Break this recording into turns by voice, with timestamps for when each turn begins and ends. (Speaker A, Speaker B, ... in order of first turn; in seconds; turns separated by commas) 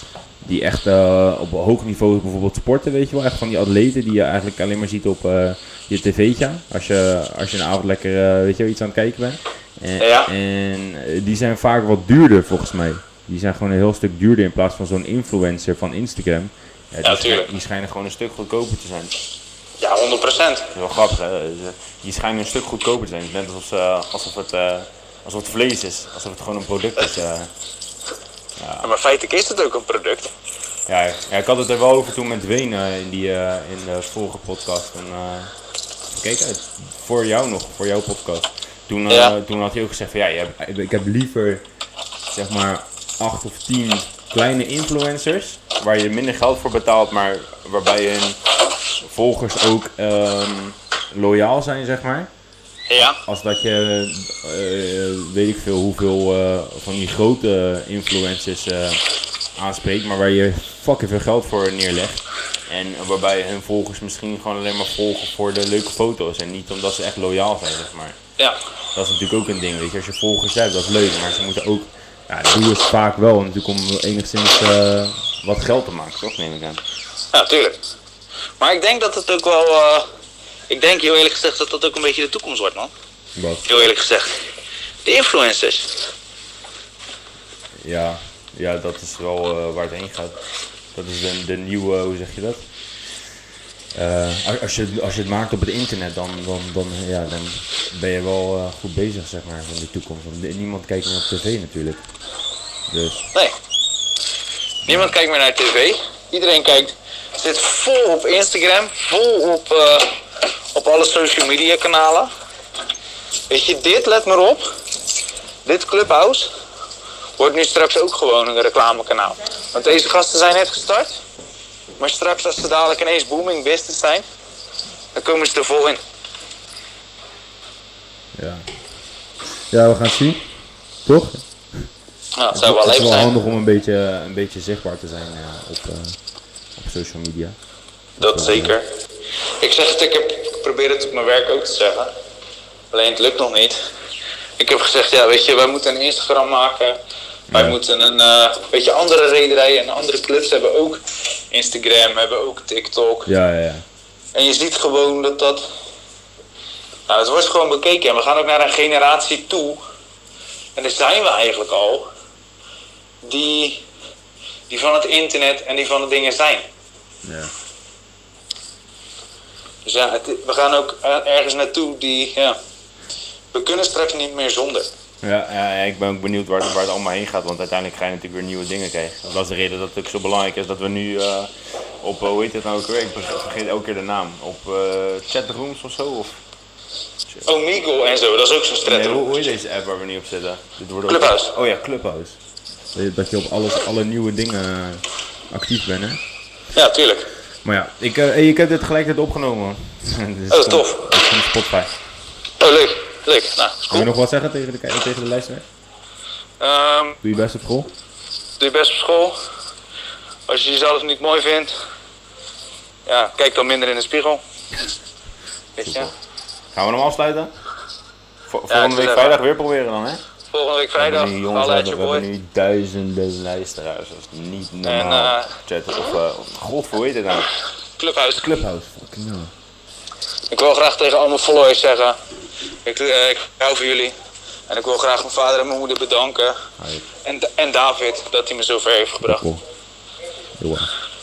Speaker A: 0.4-19.1, Speaker B: 10.0-10.3, Speaker B: 17.0-17.5, Speaker B: 19.8-20.7, Speaker A: 20.7-27.5, Speaker A: 28.6-28.9, Speaker B: 28.8-30.3, Speaker A: 30.9-35.5, Speaker A: 36.1-41.6, Speaker B: 39.1-39.4, Speaker A: 42.3-48.4, Speaker A: 49.0-52.3, Speaker B: 52.9-53.2, Speaker A: 53.0-59.0, Speaker A: 59.6-68.2, Speaker A: 68.9-76.8, Speaker B: 77.3-77.8, Speaker B: 78.6-80.1, Speaker B: 80.7-82.9, Speaker A: 83.3-83.8, Speaker B: 83.7-84.3, Speaker B: 85.0-85.9, Speaker A: 87.8-90.4, Speaker A: 90.9-92.6, Speaker A: 93.9-102.0, Speaker A: 102.9-103.3, Speaker A: 104.8-105.1, Speaker B: 104.9-110.2, Speaker B: 110.7-112.3, Speaker B: 113.5-114.6, Speaker B: 115.6-116.5, Speaker B: 117.4-121.2, Speaker B: 122.0-124.2, Speaker B: 125.1-126.0, Speaker A: 128.3-128.7, Speaker A: 129.7-130.5, Speaker A: 131.0-131.9, Speaker B: 132.4-133.3, Speaker A: 132.5-136.2, Speaker A: 136.8-137.6, Speaker A: 138.2-138.8, Speaker B: 138.2-138.9, Speaker B: 139.6-142.1, Speaker B: 142.9-143.8, Speaker B: 144.6-147.0, Speaker A: 147.5-147.8, Speaker B: 147.5-153.3, Speaker A: 153.2-153.8, Speaker B: 154.3-155.6, Speaker B: 157.1-159.8, Speaker B: 160.8-162.1, Speaker B: 163.2-163.8, Speaker B: 164.7-166.7, Speaker A: 167.2-167.5, Speaker B: 169.8-172.6, Speaker B: 173.5-174.9, Speaker A: 175.2-181.5, Speaker A: 182.0-186.4, Speaker A: 187.3-187.5, Speaker B: 187.5-189.4, Speaker A: 188.8-192.4, Speaker B: 191.1-191.5, Speaker A: 192.9-196.2, Speaker B: 196.7-197.3, Speaker A: 197.6-201.9, Speaker B: 200.5-201.1, Speaker B: 202.6-204.1, Speaker A: 203.9-205.7, Speaker B: 206.6-207.2, Speaker A: 207.2-207.9, Speaker B: 208.6-209.3, Speaker B: 210.5-211.7, Speaker B: 213.1-214.4, Speaker B: 215.8-216.1, Speaker A: 215.8-216.1, Speaker A: 216.7-217.5, Speaker A: 218.5-220.2, Speaker B: 218.7-219.4, Speaker B: 220.5-222.3, Speaker A: 220.9-227.5, Speaker B: 224.8-225.5, Speaker B: 228.0-228.5, Speaker A: 228.3-229.5, Speaker B: 230.5-232.2, Speaker B: 232.8-234.2, Speaker B: 234.7-236.6, Speaker A: 236.8-237.1, Speaker B: 237.2-239.4, Speaker A: 239.2-239.6, Speaker A: 240.6-240.9